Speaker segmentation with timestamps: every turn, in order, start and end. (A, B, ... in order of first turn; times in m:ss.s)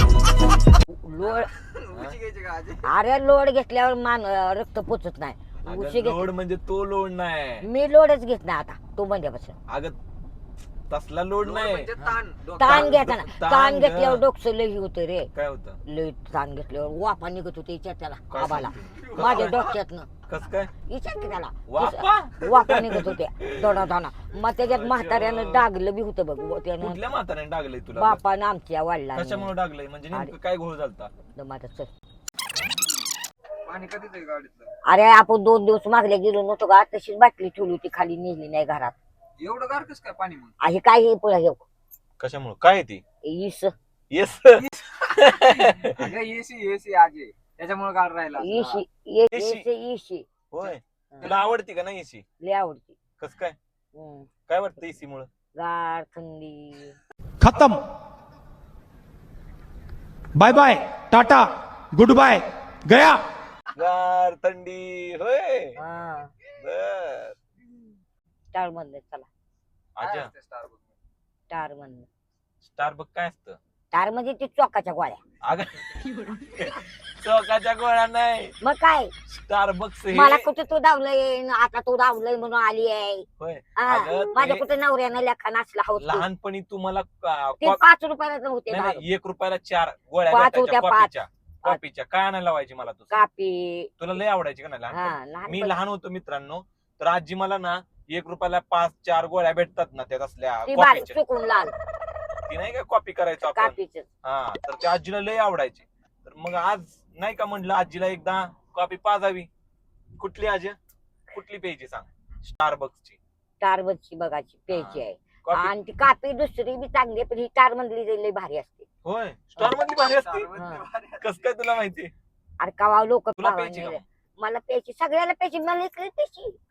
0:00.9-0:01.5 A
0:01.6-0:02.9 B
0:01.9-0:02.2 C
0:02.8-0:06.3 A
0:05.6-0:07.6 C
0:07.6-0:09.6 A
0:09.7-0:10.0 C
0:10.9-0:14.2 C
0:11.4-0:13.0 B
0:12.6-0:15.3 A
0:15.3-0:15.8 C
0:15.8-0:20.1 A
0:18.3-0:19.7 C
0:20.3-0:20.7 C
0:20.9-0:27.0 A
0:21.7-0:23.8 C
0:24.6-0:25.6 C
0:26.8-0:28.2 C
0:28.0-0:29.5 A
0:29.1-0:31.1 C
0:31.2-0:31.9 A
0:33.7-0:34.7 B
0:34.9-0:39.0 A
0:39.4-0:40.5 B
0:40.6-0:41.6 A
0:42.2-0:43.0 C
0:43.2-0:43.7 A
0:44.1-0:46.1 C
0:44.6-0:48.8 B
0:48.4-0:50.3 A
0:49.3-0:49.6 C
0:50.5-0:52.2 C
0:52.4-0:53.0 A
0:53.2-0:53.6 C
0:54.0-0:54.3 A
0:54.5-0:55.3 C
0:55.6-0:57.0 A
0:57.4-0:57.8 D
1:00.4-1:03.2 D
1:03.8-1:05.8 C
1:05.8-1:06.3 A
1:06.6-1:07.4 C
1:08.5-1:09.3 A
1:10.0-1:10.3 C
1:10.0-1:10.9 B
1:11.5-1:12.1 A
1:12.6-1:13.6 C
1:13.9-1:15.2 A
1:15.4-1:18.6 C
1:18.6-1:19.1 A
1:19.3-1:20.4 C
1:20.1-1:26.3 A
1:23.4-1:24.7 C
1:26.0-1:27.8 C
1:27.6-1:29.0 A
1:28.7-1:33.2 C
1:30.3-1:31.8 A
1:33.1-1:33.9 A
1:34.0-1:41.2 C
1:34.9-1:35.8 A
1:40.7-1:41.8 A
1:42.5-1:49.5 C
1:43.4-1:44.1 A
1:50.2-1:50.8 C
1:51.3-1:53.2 C
1:53.6-1:58.9 A
1:54.7-1:55.7 C
1:59.0-2:00.5 C
1:59.6-2:01.3 B
2:00.6-2:00.8 A
2:01.2-2:02.1 C
2:02.6-2:06.6 A
2:03.4-2:04.0 C